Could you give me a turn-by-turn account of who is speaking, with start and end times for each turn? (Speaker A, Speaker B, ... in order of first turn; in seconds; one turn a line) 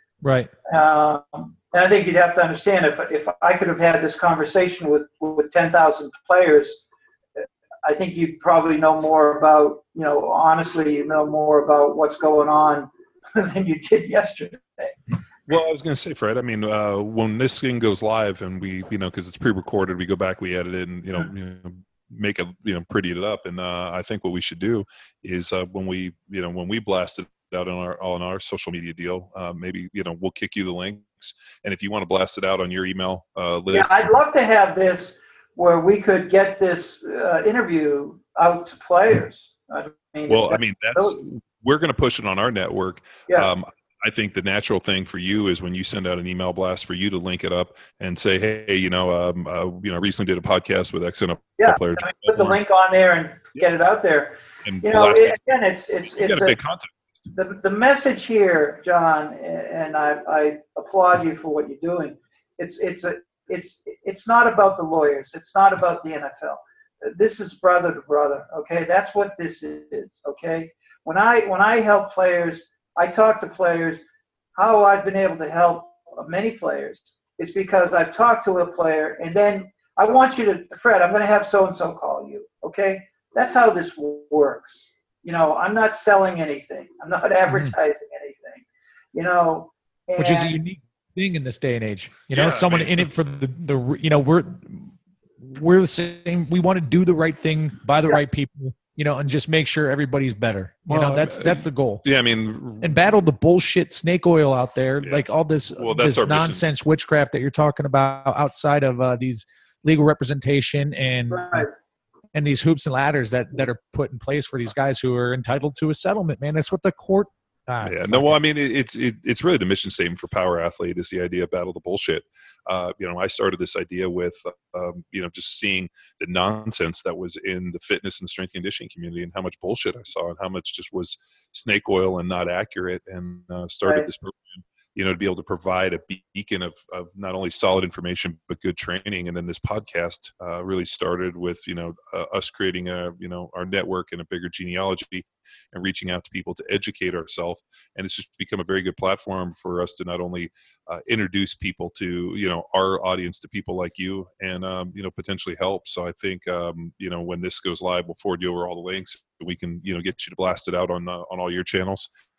Speaker A: 0.2-0.5
Speaker B: 0.7-6.8
Speaker B: 7.8-14.9
Speaker C: 15.5-34.1
Speaker B: 33.7-41.2
Speaker C: 40.3-52.6
Speaker B: 51.6-56.6
Speaker C: 54.6-55.4
Speaker C: 56.2-57.2
Speaker B: 57.3-74.0
Speaker B: 74.5-90.6
Speaker A: 87.5-87.7
Speaker A: 90.2-102.0
Speaker C: 92.3-93.1
Speaker C: 100.9-103.0
Speaker A: 102.8-111.7
Speaker C: 105.0-106.7
Speaker B: 111.3-111.7
Speaker A: 112.3-118.3
Speaker C: 117.8-162.1